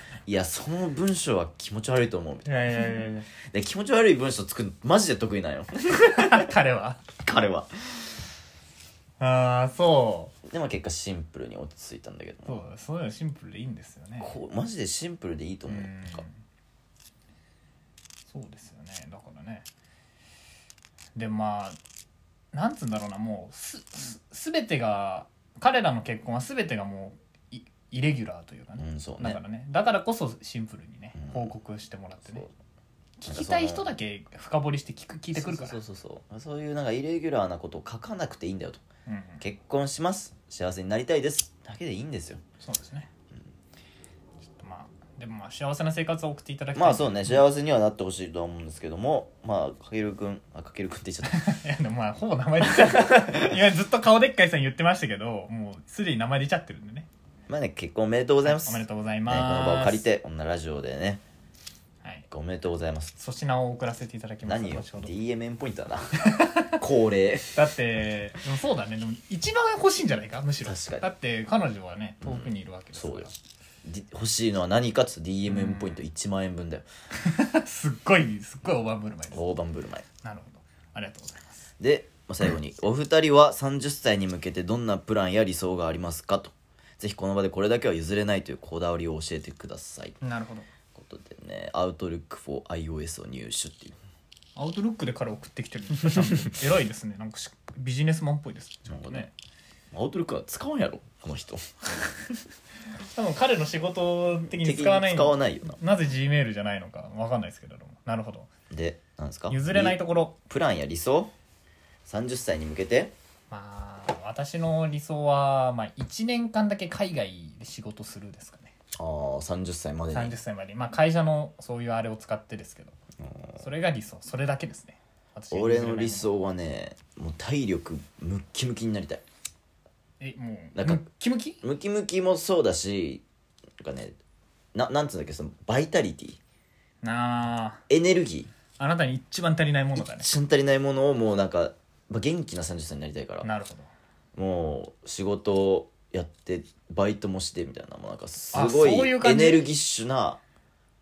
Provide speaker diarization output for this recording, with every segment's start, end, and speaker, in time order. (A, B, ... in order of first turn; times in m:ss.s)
0:00.2-0:02.9 A
0:02.4-0:03.3 B
0:03.4-0:06.5 A
0:06.0-0:07.0 B
0:07.2-0:08.1 A
0:09.2-0:10.4 B
0:10.4-0:12.6 A
0:12.4-0:14.3 B
0:14.2-0:16.2 A
0:15.7-0:16.4 B
0:18.3-0:19.6 B
0:21.1-0:21.8 B
0:22.5-0:32.4 B
0:28.8-0:29.4 A
0:31.2-0:31.5 A
0:33.2-0:35.8 B
0:33.2-0:33.9 A
0:35.3-0:38.8 A
0:39.1-0:39.4 B
0:39.4-0:42.4 A
0:42.6-0:43.1 B
0:44.4-0:47.4 B
0:46.7-0:51.5 A
0:51.2-0:57.1 B
0:52.7-0:53.5 A
0:57.5-1:01.2 A
0:58.4-1:00.0 B
1:02.3-1:03.1 A
1:03.2-1:05.1 B
1:04.4-1:07.6 A
1:06.2-1:06.8 B
1:07.5-1:13.3 B
1:10.6-1:11.0 A
1:12.2-1:13.3 A
1:13.8-1:16.8 A
1:15.5-1:16.0 B
1:17.2-1:19.4 B
1:19.3-1:20.0 A
1:20.2-1:21.7 B
1:21.8-1:30.2 A
1:30.2-1:30.7 B
1:30.9-1:34.0 A
1:34.6-1:39.3 B
1:38.9-1:39.3 A
1:39.9-1:42.2 A
1:43.1-1:48.5 B
1:44.6-1:45.8 A
1:48.7-1:51.3 A
1:49.5-1:50.4 B
1:52.0-1:53.1 A
1:53.5-1:58.7 B
1:59.0-2:00.3 A
2:00.1-2:03.0 B
2:03.2-2:03.6 A
2:03.6-2:06.3 B
2:05.5-2:09.2 A
2:10.2-2:11.6 B
2:10.7-2:11.0 A
2:11.6-2:13.2 A
2:13.8-2:14.2 A
2:14.7-2:16.4 A
2:17.0-2:17.8 B
2:17.9-2:18.5 A
2:18.8-2:20.3 B
2:20.0-2:23.5 A
2:23.4-2:23.9 B
2:24.3-2:30.4 A
2:28.5-2:29.6 B